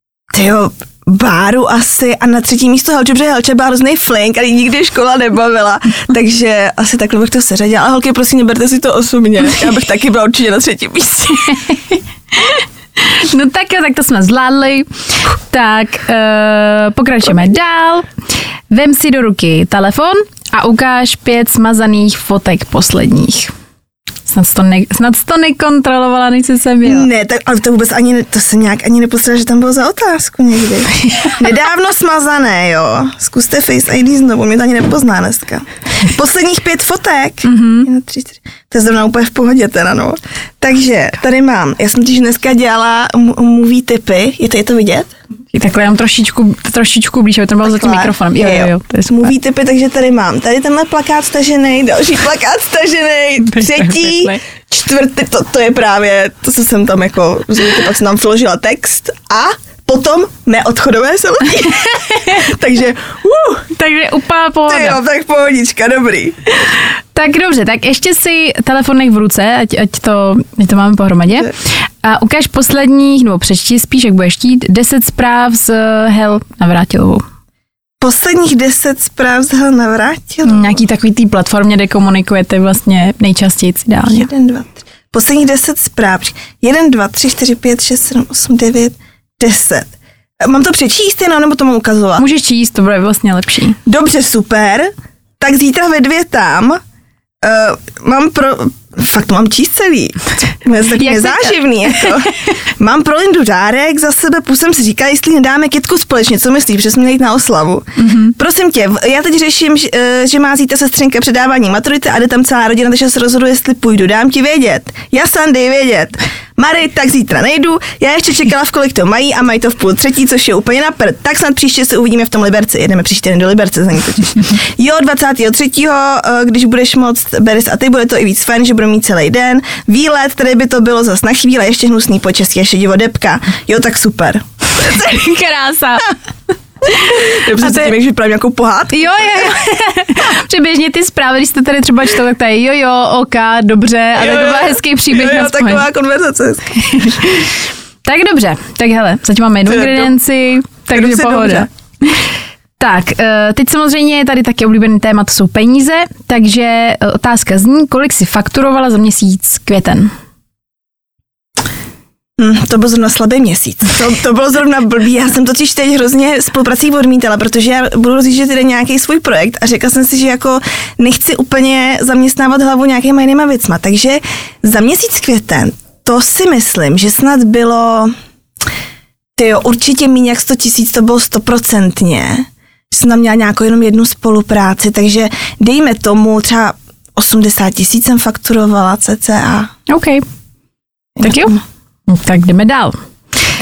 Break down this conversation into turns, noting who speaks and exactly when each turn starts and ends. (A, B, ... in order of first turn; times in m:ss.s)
0:00.3-0:11.6 A
0:11.5-0:18.1 B
0:18.7-0:23.5 B
0:24.3-0:27.1 B
0:26.8-0:45.1 A
0:37.4-0:37.9 B
0:45.5-0:49.3 B
0:47.6-1:03.7 A
0:53.4-0:54.4 B
1:01.9-1:02.4 B
1:03.7-1:05.0 B
1:04.7-1:06.4 A
1:06.7-1:17.2 B
1:18.0-1:20.8 A
1:20.4-1:24.3 B
1:24.0-1:32.2 A
1:32.2-1:33.8 B
1:33.8-1:36.8 A
1:37.4-2:15.3 A
1:41.0-1:42.5 B
1:48.0-1:48.3 B
2:14.9-2:16.1 B
2:16.9-2:17.9 B
2:16.9-2:19.5 A
2:18.9-2:25.9 B
2:24.2-2:27.1 A
2:26.8-2:32.2 B
2:29.6-2:30.1 A
2:30.9-2:31.7 A
2:32.8-2:40.1 B
2:42.4-2:58.1 A
2:59.4-3:09.7 A
3:09.9-3:10.2 B
3:11.2-3:11.6 A
3:11.2-3:13.0 B